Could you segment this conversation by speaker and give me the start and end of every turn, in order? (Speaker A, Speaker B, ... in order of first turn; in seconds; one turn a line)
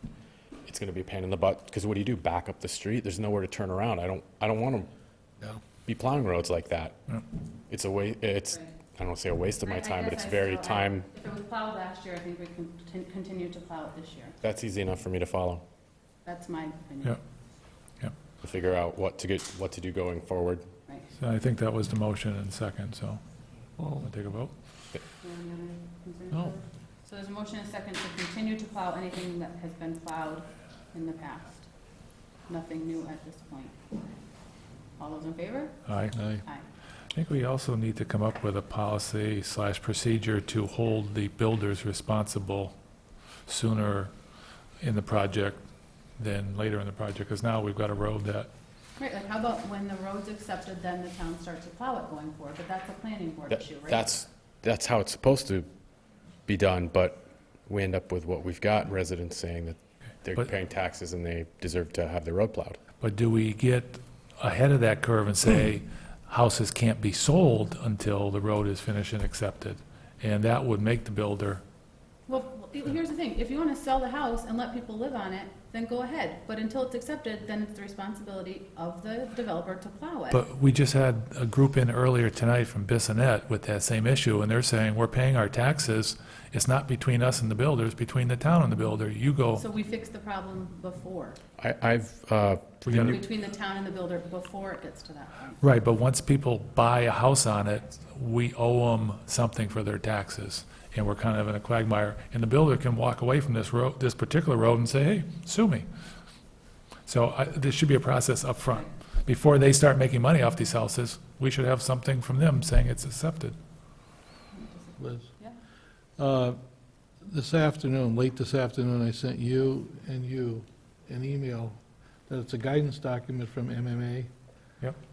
Speaker A: 0.7-4.9
Speaker A: 5.9-7.0
Speaker A: 7.7-11.1
Speaker B: 9.6-14.4
Speaker A: 14.4-15.6
Speaker B: 16.2-17.2
Speaker A: 18.4-20.7
Speaker C: 21.2-23.2
Speaker C: 24.0-24.5
Speaker B: 25.2-31.7
Speaker B: 32.5-33.8
Speaker B: 35.0-35.8
Speaker C: 35.9-36.2
Speaker D: 36.2-36.4
Speaker C: 37.1-42.8
Speaker C: 43.5-44.1
Speaker C: 44.8-45.6
Speaker C: 46.2-48.5
Speaker B: 49.0-54.1
Speaker A: 53.5-55.7
Speaker A: 56.5-62.8
Speaker C: 63.0-71.6
Speaker B: 72.3-80.4
Speaker C: 80.3-89.6
Speaker B: 89.5-91.4
Speaker A: 91.6-93.2
Speaker C: 92.8-93.2
Speaker B: 93.1-95.6
Speaker C: 95.6-105.8
Speaker C: 107.0-113.5
Speaker B: 114.5-115.6
Speaker D: 115.0-115.3
Speaker D: 116.2-116.6
Speaker D: 117.2-124.3